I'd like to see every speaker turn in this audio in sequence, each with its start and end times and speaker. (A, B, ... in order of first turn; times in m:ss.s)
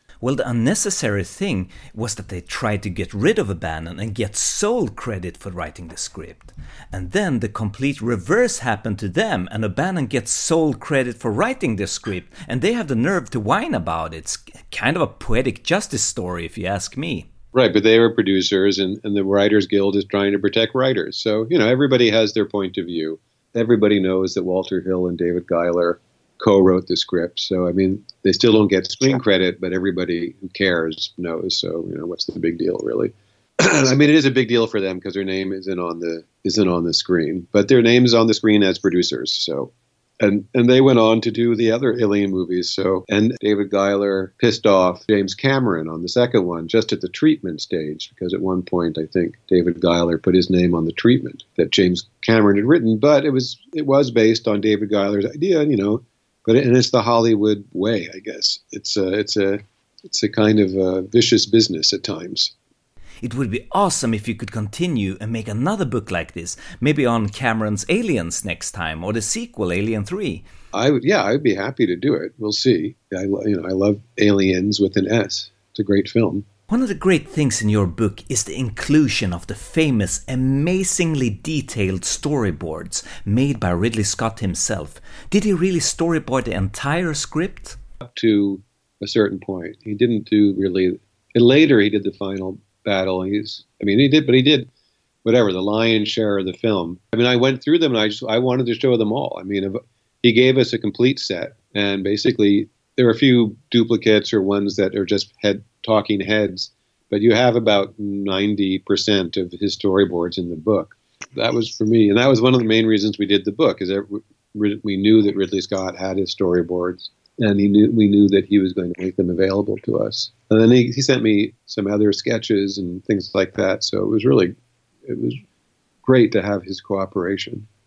0:00.2-0:17.3 A
0:17.5-1:02.5 B
1:03.2-1:10.4 A
1:10.7-1:16.4 B
1:16.7-1:27.8 A
1:28.0-1:34.7 B
1:35.2-2:04.5 B
2:05.0-2:05.4 B
2:06.0-2:07.7 B